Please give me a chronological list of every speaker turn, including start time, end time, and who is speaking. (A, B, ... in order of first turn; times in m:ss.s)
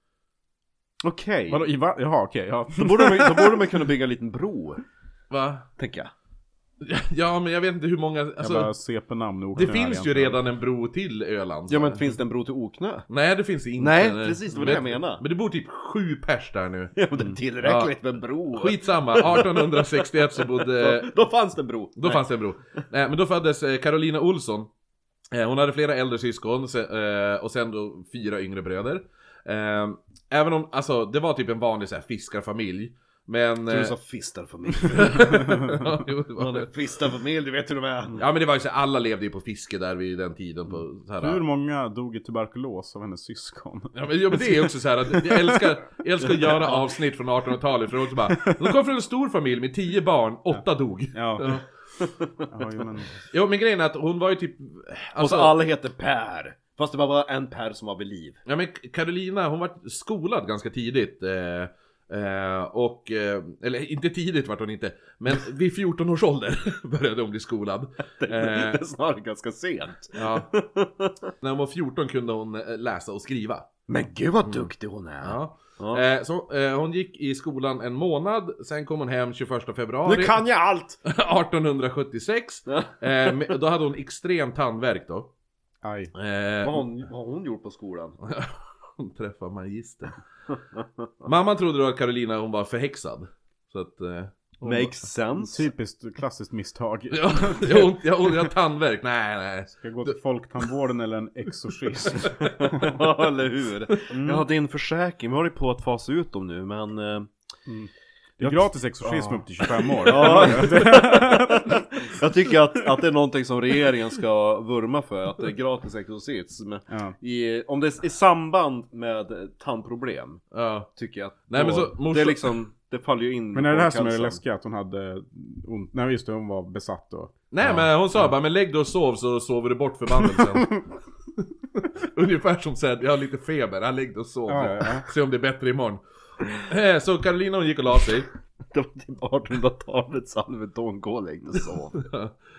0:01.0-0:01.7 A
0:01.5-0:03.6 B
0:02.8-0:04.8 A
0:05.3-0:05.7 C
0:05.8-0:06.1 A
0:06.8-0:08.7 C
0:08.4-0:10.4 B
0:09.6-0:12.2 C
0:11.7-0:13.1 A
0:13.1-0:17.0 C
0:13.8-0:15.2 A
0:17.0-0:22.3 A
0:17.6-0:17.9 C
0:18.5-0:21.1 C
0:22.0-0:24.7 C
0:25.3-0:34.0 C
0:33.7-0:35.2 A
0:34.9-0:36.7 C
0:36.4-0:38.2 A
0:38.2-0:41.4 C
0:41.2-0:45.6 B
0:43.9-0:51.6 C
0:46.4-0:46.8 A
0:48.3-0:48.6 B
0:51.1-0:51.5 B
0:52.0-0:52.3 A
0:52.5-0:53.2 B
0:53.3-0:55.6 C
0:55.2-0:58.4 A
0:58.5-1:08.8 C
1:08.2-1:11.1 A
1:10.2-1:10.5 C
1:11.4-1:13.7 C
1:13.9-1:16.0 A
1:14.4-1:14.7 C
1:15.2-1:20.4 C
1:20.0-1:21.0 A
1:21.1-1:25.3 C
1:25.8-1:26.1 B
1:26.2-1:26.8 C
1:26.6-1:28.2 A
1:28.2-1:30.2 C
1:31.2-1:34.9 C
1:34.6-1:35.7 A
1:35.4-1:37.9 B
1:37.1-1:40.2 C
1:39.7-1:43.1 B
1:42.4-1:47.3 A
1:44.1-1:44.5 B
1:47.7-1:51.7 B
1:48.4-2:00.4 A
1:50.2-1:50.8 C
1:56.9-1:57.2 B
2:00.5-2:00.9 C
2:01.0-2:04.4 A
2:01.5-2:02.6 C
2:03.5-2:07.9 B
2:07.5-2:10.8 C
2:11.8-2:16.0 C
2:14.5-2:15.1 B
2:16.6-2:18.3 C
2:18.7-2:22.1 A
2:22.0-2:22.3 C